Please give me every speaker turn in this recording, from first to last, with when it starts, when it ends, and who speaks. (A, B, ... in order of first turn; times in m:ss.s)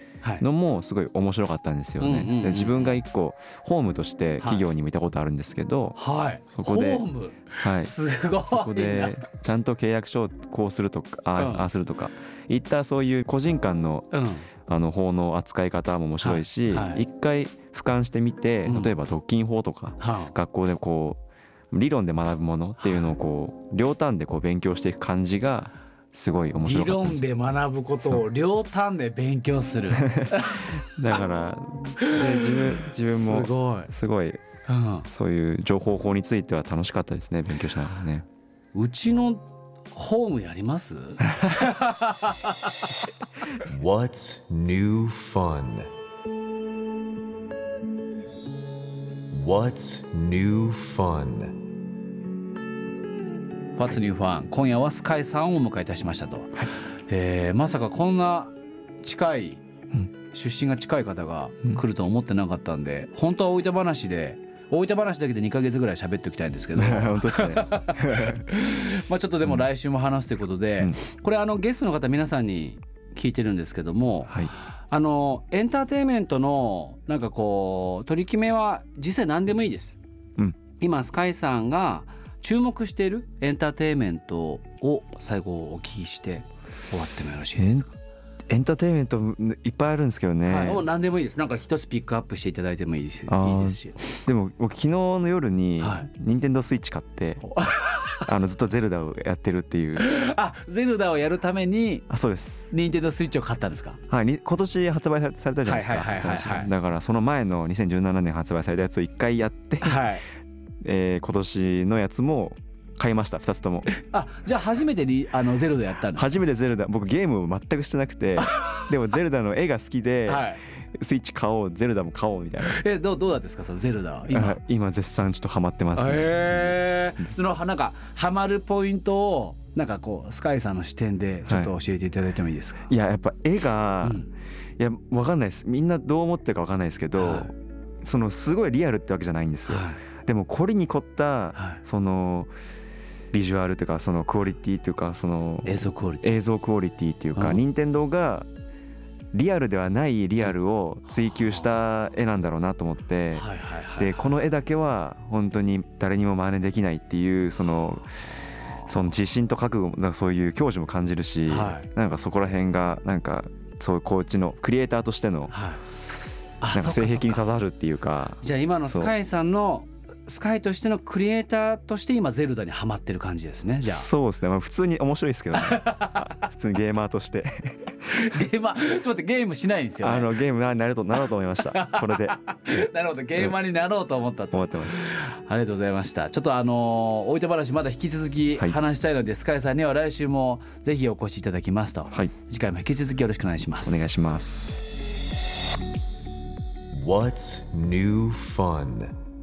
0:00.2-0:00.4 A
0:00.4-0:06.0 B
0:02.0-0:03.0 A
0:04.4-0:04.7 A
0:06.0-0:09.2 A
0:06.5-0:07.0 B
0:07.6-0:07.9 B
0:08.5-0:14.1 B
0:11.4-0:11.7 A
0:14.1-0:14.5 A
0:14.7-0:21.2 B
0:16.2-0:17.0 A
0:18.6-0:18.9 A
0:20.0-0:20.3 A
0:21.7-0:27.2 B
0:22.8-0:23.1 A
0:26.6-0:30.7 A
0:30.0-0:34.4 B
0:32.0-0:33.9 A
0:34.7-0:35.1 A
0:35.1-0:38.2 B
0:38.7-0:42.8 A
0:43.7-0:45.9 C
0:49.3-0:51.5 C
0:53.8-0:59.6 A
1:00.3-1:20.0 A
1:06.8-1:08.4 B
1:20.8-1:27.9 A
1:27.6-1:27.9 B
1:28.5-1:30.9 B
1:30.4-1:34.1 A
1:33.3-1:37.4 B
1:35.8-1:36.1 A
1:37.4-1:38.3 A
1:38.2-1:40.0 B
1:40.0-1:42.0 A
1:42.1-1:42.7 B
1:42.7-1:44.0 A
1:44.1-1:50.2 B
1:45.6-1:46.7 A
1:49.8-1:50.2 A
1:50.8-1:53.9 B
1:53.9-1:56.3 A
1:56.1-2:02.8 B
2:00.3-2:00.6 A
2:02.6-2:04.6 A
2:04.3-2:07.3 B
2:05.9-2:12.9 A
2:11.5-2:11.7 B
2:12.9-2:14.2 B
2:14.0-2:14.3 A
2:14.8-2:22.5 B
2:17.2-2:17.5 A
2:19.7-2:20.0 A
2:21.5-2:21.8 A
2:23.3-2:28.5 B
2:25.6-2:26.4 A
2:27.4-2:27.6 A
2:29.3-2:38.2 B
2:31.3-2:31.6 A
2:33.4-2:34.3 A
2:38.9-2:45.5 B
2:41.5-2:41.9 A
2:45.5-2:45.8 A
2:46.6-2:47.5 A
2:46.7-2:49.1 B
2:48.4-2:54.1 A
2:53.8-2:58.3 B
2:55.5-2:56.3 A
2:58.1-3:00.4 A
3:00.0-3:03.5 B
3:01.6-3:14.1 A
3:04.5-3:05.0 B
3:13.8-3:14.9 B
3:16.9-3:19.1 C